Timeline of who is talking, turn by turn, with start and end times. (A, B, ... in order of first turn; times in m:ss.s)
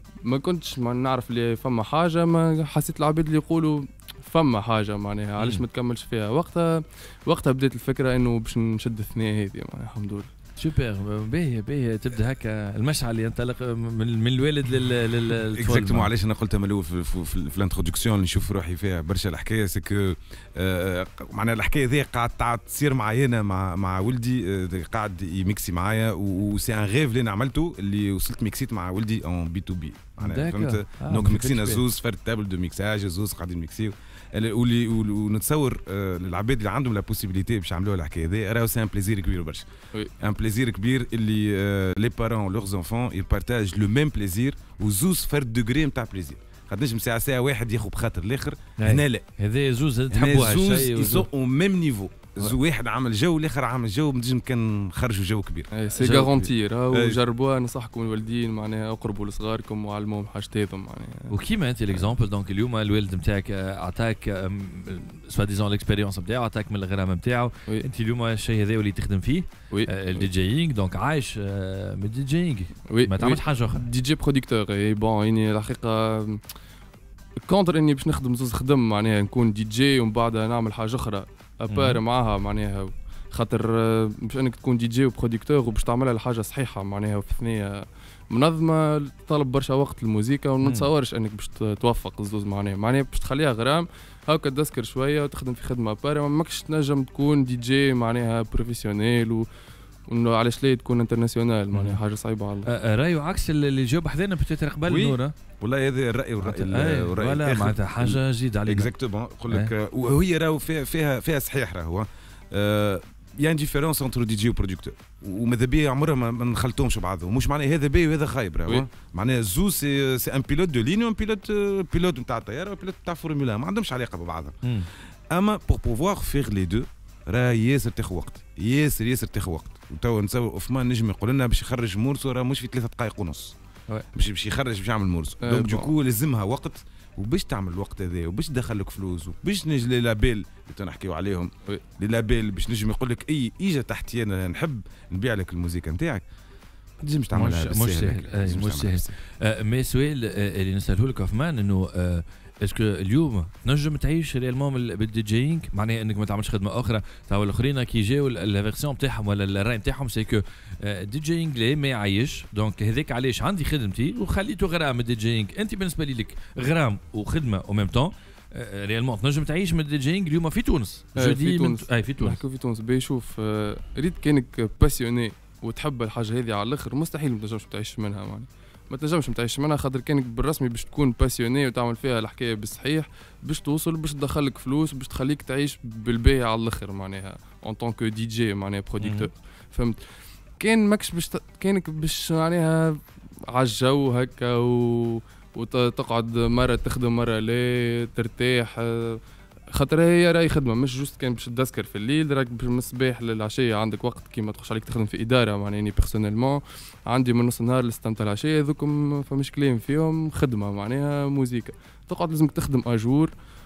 0:00.2-0:10.3 A
0:10.6-0:16.1 B
0:15.6-0:39.6 C
0:30.2-0:31.8 B
0:40.2-0:49.3 C
0:48.8-0:51.3 B
0:50.1-0:55.7 C
0:55.7-1:01.3 A
0:56.0-0:56.5 B
0:56.9-0:57.2 C
1:01.3-1:13.9 B
1:12.9-1:16.4 A
1:17.5-1:39.5 A
1:21.7-1:22.0 B
1:30.6-1:30.9 B
1:40.1-1:42.7 A
1:41.7-1:42.0 B
1:42.6-1:45.3 B
1:44.9-2:04.6 C
1:46.4-1:48.9 B
2:05.3-2:13.5 C
2:14.1-2:26.2 C
2:15.4-2:15.9 A
2:27.0-2:29.2 C
2:27.3-2:52.4 B
2:51.2-3:10.0 A
3:09.0-3:09.3 B
3:10.6-3:13.0 A
3:13.5-3:19.2 A
3:19.7-3:33.3 A